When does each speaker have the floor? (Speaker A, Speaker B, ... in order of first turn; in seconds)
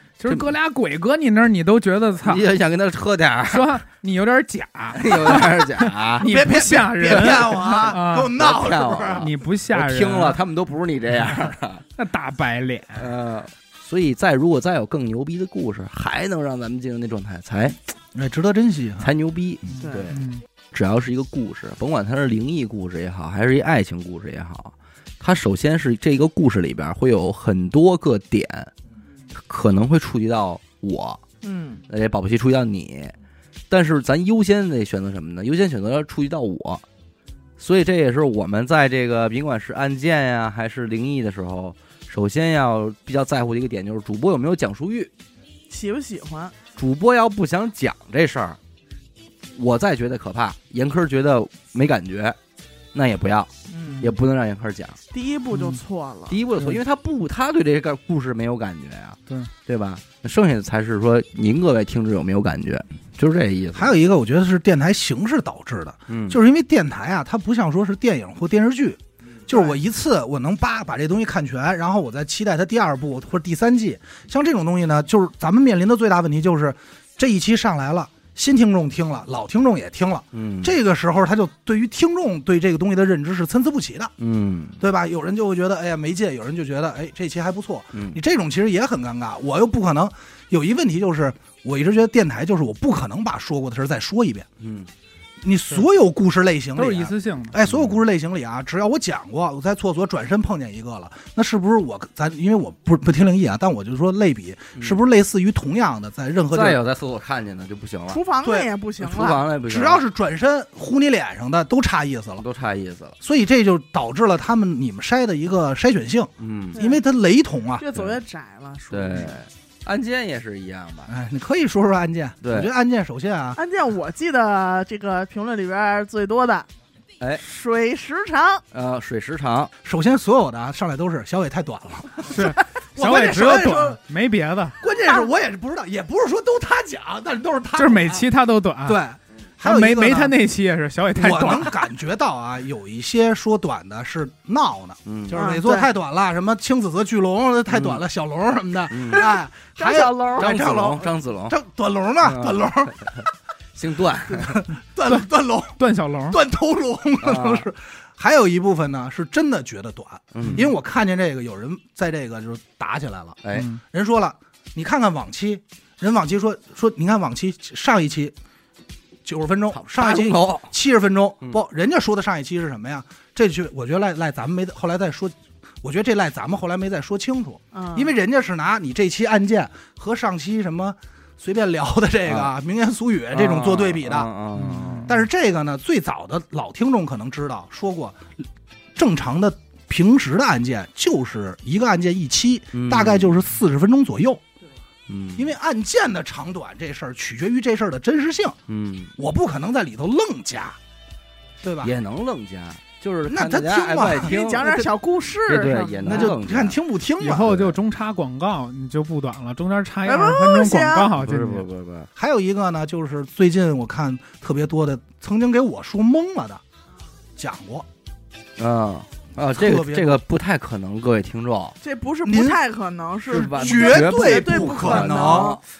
Speaker A: 0.2-2.5, 3.5-8.3, 9.1-10.4, 12.0-13.1, 20.1-20.4, 55.5-55.8, 96.7-97.5, 132.3-134.8, 137.8-139.0, 139.6-141.7, 155.8-156.4, 160.4-160.7, 163.5-163.8, 184.5-185.1, 207.2-211.7
Speaker B: 0.3-0.5, 2.2-3.7, 4.9-6.5, 7.0-11.8, 12.9-17.8, 19.0-28.7, 29.3-31.2, 31.9-33.1, 33.7-36.8, 37.6-45.1, 46.8-48.6, 49.5-52.4, 52.9-53.5, 54.0-55.0, 56.3-63.9, 66.1-66.4, 80.3-80.7, 84.2-84.8, 87.9-88.2, 94.6-94.9, 97.6-98.0, 106.5-108.2, 109.0-110.0, 112.4-113.2, 116.4-116.8, 118.9-121.1, 122.4-122.7, 128.7-129.7, 145.1-145.4, 147.7-148.0, 148.9-149.3, 150.3-151.6, 152.2-153.2, 153.7-154.6, 157.2-157.7, 160.3-160.7, 163.4-163.7, 169.7-170.7, 182.2-182.5, 183.3-185.1, 192.7-193.4, 195.1-195.5, 198.7-199.1, 201.8-204.8, 205.4-207.8, 211.1-212.1, 218.6-221.8, 223.3-225.6
Speaker C: 6.2-9.3, 18.1-19.1, 63.7-84.1, 84.8-94.5, 95.4-106.8, 108.4-108.7, 109.7-112.4, 113.2-117.8, 121.1-123.6, 129.8-134.0, 134.8-138.3, 138.8-140.4, 141.2-153.0, 154.3-168.3, 169.2-184.3, 185.1-188.3, 188.9-194.4, 195.3-198.6, 199.2-200.8, 201.6-201.9, 203.3-204.7, 206.0-207.6, 212.2-216.6, 217.4-217.9, 219.4-220.2, 222.2-222.6, 223.3-225.6
Speaker D: 19.8-20.1, 31.4-31.8, 45.7-46.5, 53.7-54.1, 55.1-56.4, 108.1-109.4, 116.7-117.0, 117.8-119.4, 123.5-126.7, 127.4-128.6, 133.0-133.9, 145.3-145.9, 149.1-151.0, 177.7-178.1, 204.2-206.3, 210.0-211.1, 221.8-225.6